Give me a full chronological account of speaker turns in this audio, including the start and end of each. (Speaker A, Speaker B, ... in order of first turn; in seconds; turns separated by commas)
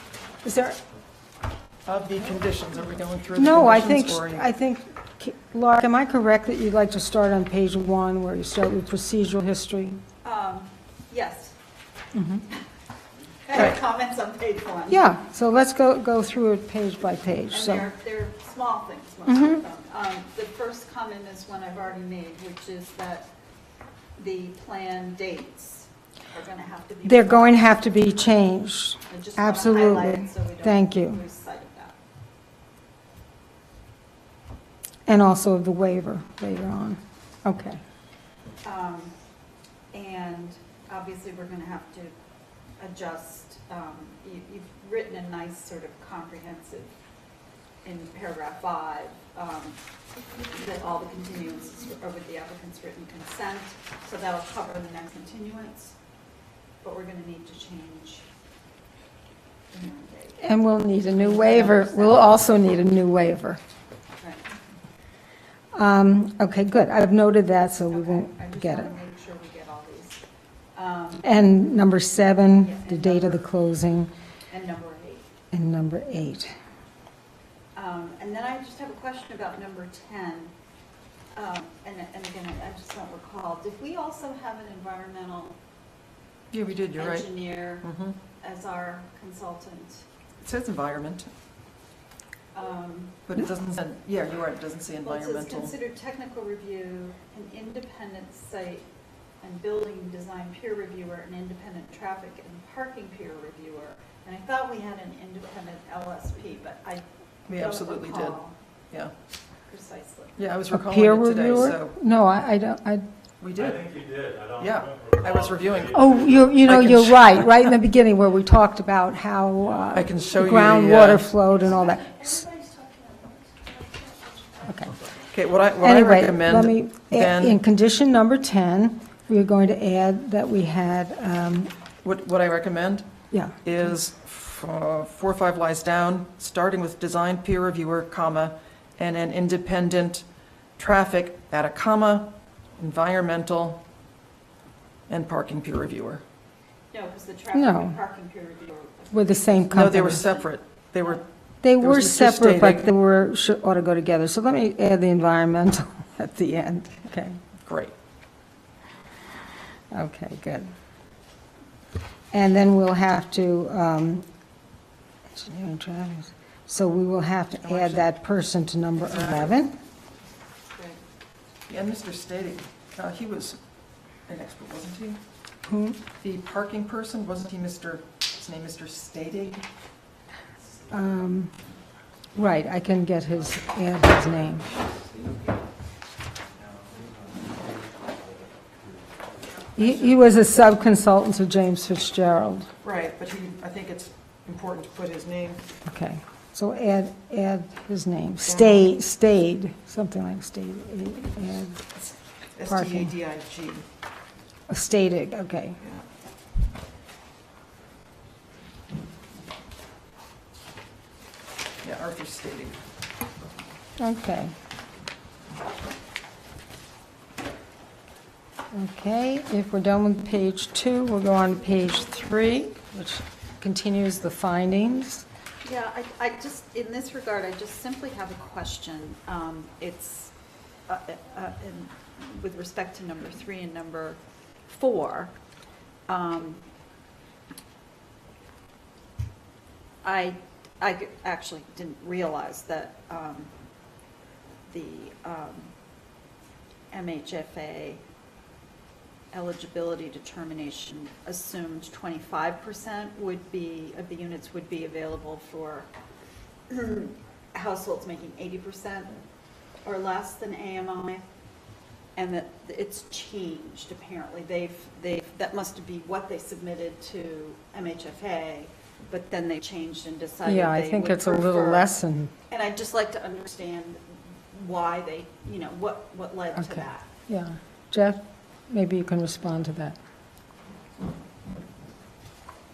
Speaker A: 0.4-0.8, Speaker B: 1.9-4.5, Speaker A: 3.4-10.0, Speaker C: 10.2-11.5, Speaker A: 12.2-12.4, Speaker C: 13.5-15.1, Speaker A: 14.9-17.9, Speaker C: 17.5-23.3, Speaker A: 19.3-19.6, Speaker C: 24.2-27.7, Speaker A: 27.0-31.2, Speaker C: 29.1-32.0, Speaker A: 35.1-37.8, Speaker C: 38.6-39.1, Speaker C: 39.9-42.1, Speaker C: 42.8-46.9, Speaker C: 47.8-49.8, Speaker C: 50.5-56.0, Speaker C: 56.8-58.3, Speaker C: 59.7-60.5, Speaker A: 60.4-63.6, Speaker C: 61.0-62.4, Speaker C: 64.2-64.5, Speaker A: 65.7-69.0, Speaker C: 67.9-70.2, Speaker C: 70.7-73.5, Speaker A: 71.2-74.1, Speaker C: 74.5-75.3, Speaker A: 75.5-76.5, Speaker C: 77.8-80.5, Speaker C: 81.3-85.6, Speaker B: 86.5-88.2, Speaker C: 87.0-87.9, Speaker C: 88.4-90.0, Speaker B: 90.4-91.3, Speaker C: 92.5-93.3, Speaker B: 93.3-95.8, Speaker C: 95.0-98.9, Speaker C: 99.4-108.6, Speaker B: 107.5-108.4, Speaker C: 109.7-110.5, Speaker B: 110.4-112.0, Speaker A: 110.7-113.0, Speaker B: 113.4-113.9, Speaker D: 113.6-116.8, Speaker B: 114.6-117.6, Speaker A: 115.9-122.5, Speaker D: 119.6-120.0, Speaker B: 119.9-121.3, Speaker A: 124.7-124.9, Speaker B: 125.3-127.6, Speaker A: 125.8-131.7, Speaker B: 132.0-133.1, Speaker A: 133.3-133.6, Speaker B: 133.6-140.2, Speaker B: 140.8-143.8, Speaker B: 145.1-146.2, Speaker C: 146.9-150.5, Speaker A: 147.5-147.9, Speaker A: 149.1-150.3, Speaker B: 149.7-151.2, Speaker A: 151.6-157.4, Speaker B: 151.8-152.9, Speaker B: 157.7-157.9, Speaker A: 159.9-160.7, Speaker A: 162.3-164.2, Speaker A: 165.3-169.8, Speaker B: 167.6-168.1, Speaker B: 169.0-169.6, Speaker C: 170.7-171.0, Speaker B: 171.7-173.6, Speaker B: 174.3-175.2, Speaker A: 175.7-176.0, Speaker B: 176.2-179.6, Speaker A: 180.9-181.5, Speaker A: 182.3-184.7, Speaker A: 189.8-192.7, Speaker B: 189.8-190.5, Speaker B: 192.8-195.6, Speaker A: 195.9-202.0, Speaker B: 198.4-198.9, Speaker B: 202.6-203.8, Speaker A: 202.7-203.1, Speaker A: 204.7-205.8, Speaker B: 211.8-212.8, Speaker A: 214.0-214.5, Speaker A: 218.7-225.2, Speaker C: 225.6-230.3, Speaker C: 230.9-235.3, Speaker C: 236.1-236.6, Speaker C: 240.0-243.5, Speaker C: 244.7-245.7, Speaker C: 246.9-248.0, Speaker C: 249.3-255.9, Speaker C: 256.7-259.2, Speaker C: 259.9-261.2, Speaker C: 262.1-271.9, Speaker A: 270.4-272.3, Speaker C: 272.5-277.1, Speaker A: 276.6-280.0